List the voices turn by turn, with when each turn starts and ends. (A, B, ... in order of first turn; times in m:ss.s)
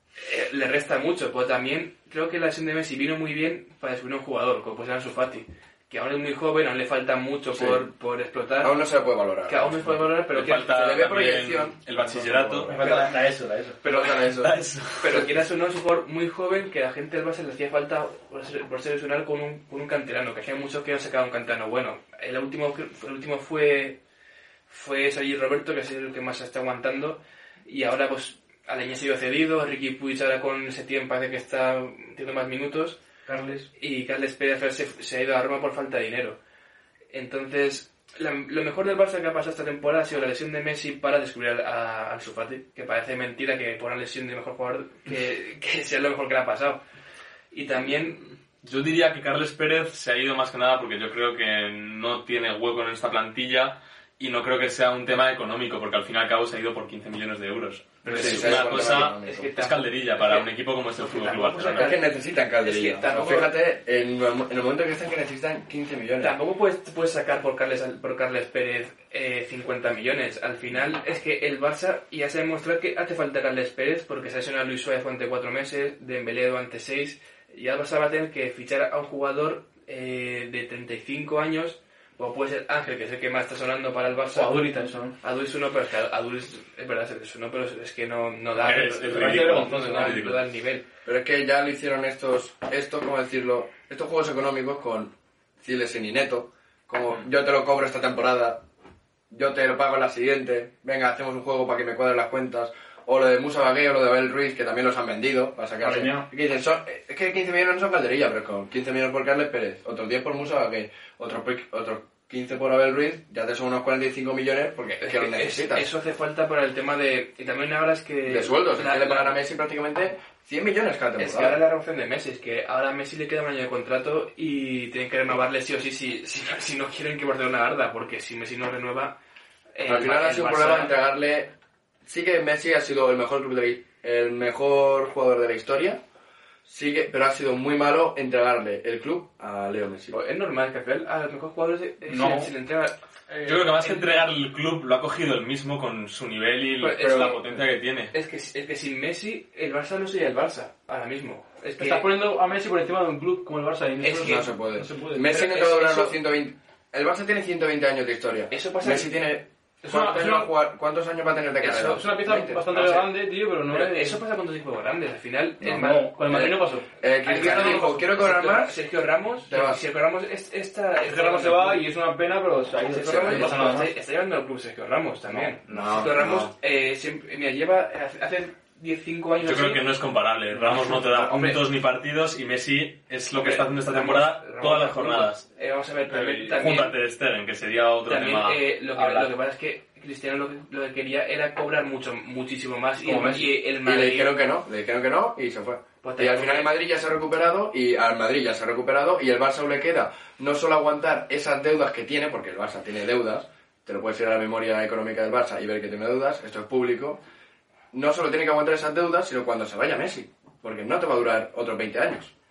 0:00.2-0:08.8 A
0:07.5-0:07.8 B
0:08.6-0:10.1 B
0:09.5-0:10.9 A
0:10.3-0:12.8 C
0:10.6-0:12.8 B
0:12.7-0:13.8 D
0:12.7-0:13.1 A
0:13.8-0:14.5 B
0:13.9-0:14.3 A
0:14.0-0:15.2 C
0:15.0-0:24.0 A
0:24.7-0:33.0 A
0:33.3-0:33.7 D
0:33.7-0:36.4 A
0:37.1-0:46.8 A
0:47.5-0:48.3 A
0:48.6-1:01.9 C
0:58.0-1:03.5 A
0:58.1-0:59.5 B
1:01.8-1:06.3 B
1:06.2-1:30.9 A
1:24.3-1:25.2 D
1:28.6-1:30.4 C
1:29.0-1:30.2 D
1:31.0-1:38.6 B
1:39.3-1:55.9 B
1:45.8-1:46.3 D
1:55.0-1:59.4 A
1:58.3-2:01.6 B
2:01.2-2:09.2 A
2:09.8-2:11.0 A
2:09.8-2:11.5 B
2:12.0-2:16.0 B
2:16.7-2:20.2 B
2:20.1-2:24.3 A
2:22.1-2:22.5 D
2:23.4-2:28.1 C
2:26.8-2:32.1 A
2:31.8-2:35.7 D
2:34.0-2:42.7 B
2:35.3-2:36.1 A
2:38.5-2:39.2 A
2:39.9-2:40.5 D
2:41.6-2:44.2 D
2:42.7-2:43.1 A
2:43.6-2:46.7 A
2:45.6-2:47.9 D
2:46.3-2:48.8 B
2:47.2-2:51.9 A
2:49.5-2:49.8 B
2:51.1-2:53.9 D
2:52.8-2:59.8 A
2:53.2-2:53.7 B
2:55.3-2:55.8 D
2:55.7-2:56.5 B
2:59.4-3:05.4 C
3:00.6-3:01.6 A
3:03.4-3:07.0 A
3:06.1-3:08.6 C
3:08.1-3:14.4 A
3:08.9-3:09.3 D
3:13.0-3:13.5 D
3:13.8-3:27.2 B
3:16.0-3:16.7 A
3:27.9-3:32.3 B